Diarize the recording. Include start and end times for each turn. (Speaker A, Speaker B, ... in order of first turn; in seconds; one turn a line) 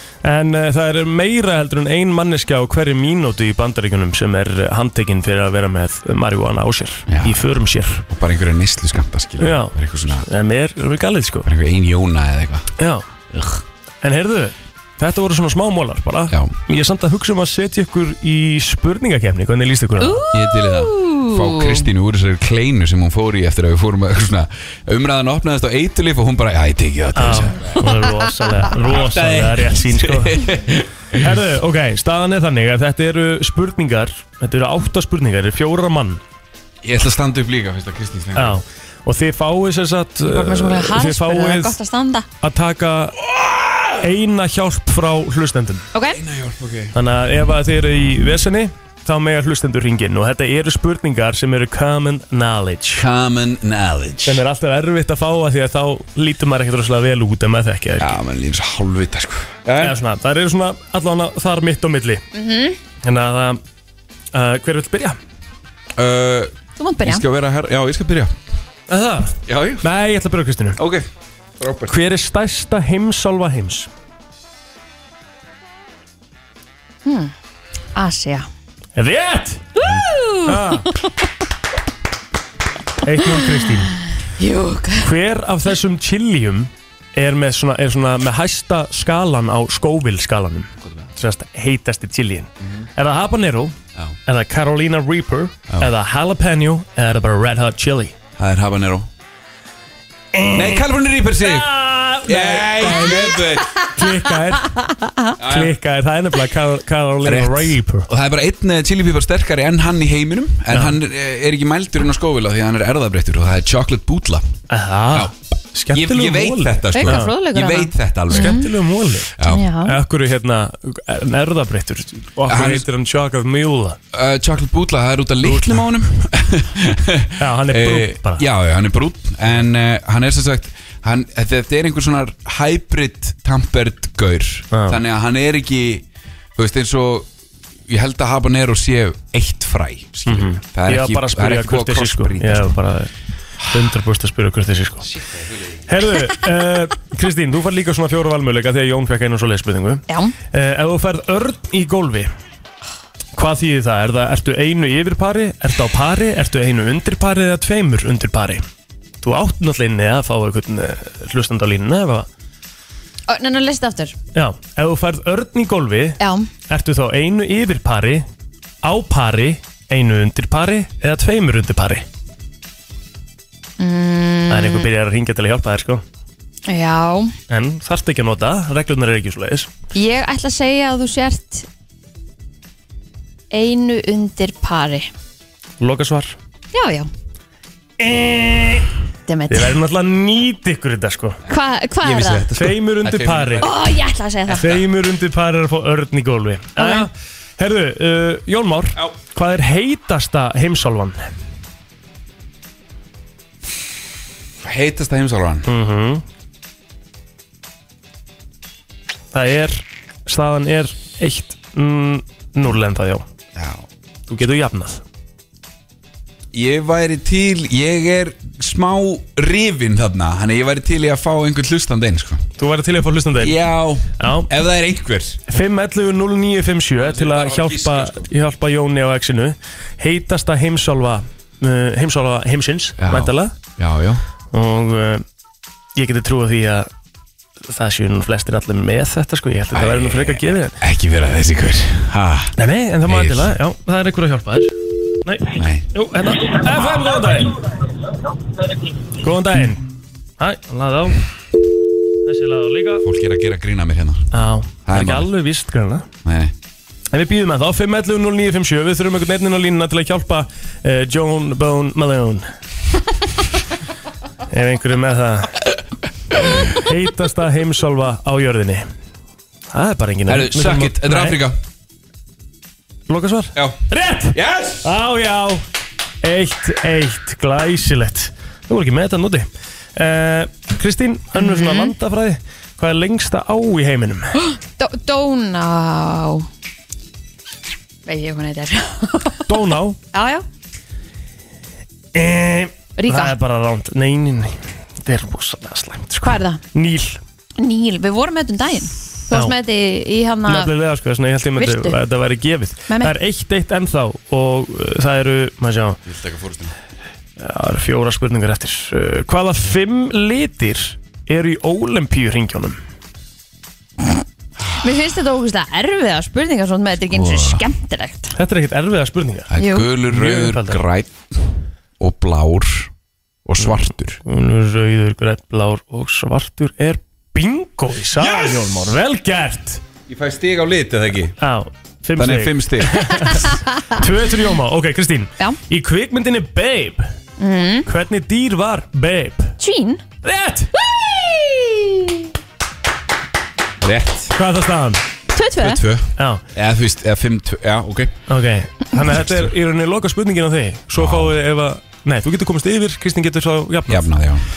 Speaker A: 0.2-8.0
Speaker B: 7.1-7.4
Speaker B: 8.1-10.3
Speaker A: 9.4-11.5
Speaker B: 11.4-12.7
Speaker A: 12.8-13.0
Speaker B: 13.3-13.6
Speaker A: 14.0-20.2
Speaker C: 20.0-21.9
Speaker B: 20.3-28.0
Speaker A: 27.1-30.4
Speaker B: 28.8-31.4
Speaker A: 31.2-36.2
Speaker B: 36.8-38.6
Speaker A: 38.3-41.8
Speaker C: 40.3-42.2
Speaker A: 42.4-43.2
Speaker B: 43.2-44.0
Speaker A: 44.0-45.9
Speaker C: 45.9-46.2
Speaker B: 46.1-46.9
Speaker A: 46.9-53.0
Speaker B: 52.9-54.4
Speaker A: 54.2-58.2
Speaker B: 58.0-60.0
Speaker A: 59.8-62.2
Speaker C: 62.3-62.8
Speaker A: 63.0-63.6
Speaker A: 64.3-65.2
Speaker B: 66.0-68.3
Speaker C: 66.8-67.2
Speaker A: 68.9-70.8
Speaker B: 69.5-69.8
Speaker B: 70.8-71.1
Speaker B: 71.6-72.0
Speaker A: 71.9-73.9
Speaker C: 77.0-77.3
Speaker C: 77.9-78.5
Speaker A: 79.0-79.7
Speaker C: 79.8-81.1
Speaker A: 80.5-80.9
Speaker A: 83.0-84.0
Speaker C: 84.4-85.1
Speaker A: 85.0-93.8
Speaker A: 94.3-98.1
Speaker B: 98.4-99.1
Speaker A: 100.3-108.1
Speaker B: 100.5-101.7
Speaker B: 102.2-103.9
Speaker B: 105.4-105.8
Speaker B: 107.2-114.6
Speaker A: 110.7-111.0
Speaker A: 114.7-117.3
Speaker B: 115.9-118.7
Speaker C: 116.9-118.7
Speaker A: 118.3-119.3
Speaker B: 119.4-119.6
Speaker C: 119.4-120.0
Speaker A: 119.8-124.0
Speaker B: 122.5-122.8
Speaker B: 124.1-137.3
Speaker A: 125.4-125.9
Speaker A: 127.4-128.4
Speaker A: 134.7-135.0
Speaker B: 137.9-142.7
Speaker A: 140.3-143.1
Speaker A: 143.7-145.1
Speaker B: 145.0-145.9
Speaker A: 145.9-152.3
Speaker C: 150.1-150.3
Speaker A: 153.3-158.6
Speaker A: 159.2-162.3
Speaker C: 163.3-164.1
Speaker A: 164.3-168.2
Speaker C: 166.2-166.5
Speaker A: 168.8-172.0
Speaker C: 173.8-174.9
Speaker A: 174.5-176.0
Speaker C: 176.7-177.3
Speaker A: 177.5-179.7
Speaker C: 179.9-181.7
Speaker C: 183.5-185.1
Speaker A: 185.8-186.3
Speaker C: 186.7-187.1
Speaker A: 188.0-188.9
Speaker C: 189.3-189.8
Speaker A: 189.5-191.4
Speaker C: 191.5-192.4
Speaker B: 192.0-193.8
Speaker A: 192.5-193.7
Speaker C: 193.6-194.7
Speaker A: 194.5-201.2
Speaker B: 194.5-194.8
Speaker C: 196.8-197.1
Speaker B: 204.6-205.7
Speaker A: 205.7-206.2
Speaker A: 209.3-213.2
Speaker B: 213.6-213.8
Speaker A: 214.3-215.0
Speaker B: 216.5-222.5
Speaker A: 222.6-223.6
Speaker B: 223.4-225.4
Speaker A: 224.2-224.5
Speaker A: 225.5-233.5
Speaker B: 227.0-228.2
Speaker B: 233.0-234.2
Speaker A: 234.5-235.2
Speaker A: 235.9-236.9
Speaker A: 237.7-240.8
Speaker B: 239.7-242.5
Speaker A: 242.6-244.7
Speaker B: 243.1-243.5
Speaker A: 245.2-247.6
Speaker B: 245.5-245.9
Speaker A: 249.2-249.8
Speaker A: 250.4-251.2
Speaker A: 252.2-253.0
Speaker B: 253.0-254.3
Speaker A: 254.3-256.1
Speaker B: 254.8-255.3
Speaker B: 256.2-256.5
Speaker A: 257.1-262.5
Speaker A: 264.5-265.6
Speaker A: 266.5-268.9
Speaker A: 269.7-271.4
Speaker B: 270.3-271.6
Speaker A: 273.1-275.6
Speaker B: 273.5-274.9
Speaker A: 276.2-284.3
Speaker C: 281.3-281.9
Speaker C: 284.4-286.5
Speaker C: 288.1-289.5
Speaker A: 289.5-290.0
Speaker C: 290.1-290.4
Speaker A: 292.1-297.2
Speaker C: 293.0-293.3
Speaker C: 296.2-296.6
Speaker C: 297.6-300.7
Speaker A: 300.5-306.0
Speaker C: 301.6-302.0
Speaker C: 302.9-303.1
Speaker B: 306.1-306.7
Speaker A: 307.4-312.8
Speaker C: 314.8-318.3
Speaker B: 317.1-317.6
Speaker A: 318.4-319.5
Speaker B: 319.5-321.4
Speaker C: 319.6-319.9
Speaker A: 320.1-320.8
Speaker B: 322.0-322.9
Speaker B: 323.4-324.2
Speaker A: 324.2-329.8
Speaker B: 328.2-328.7
Speaker B: 330.1-331.4
Speaker A: 331.4-337.1
Speaker B: 332.1-333.2
Speaker C: 333.5-334.0
Speaker C: 337.4-337.9
Speaker A: 337.9-339.6
Speaker C: 339.6-340.0
Speaker A: 340.2-340.8
Speaker C: 341.2-342.0
Speaker B: 343.8-344.4
Speaker A: 344.4-345.0
Speaker C: 345.3-345.8
Speaker B: 345.6-348.2
Speaker A: 348.3-354.1
Speaker B: 349.1-349.5
Speaker B: 350.9-351.4
Speaker B: 353.9-354.4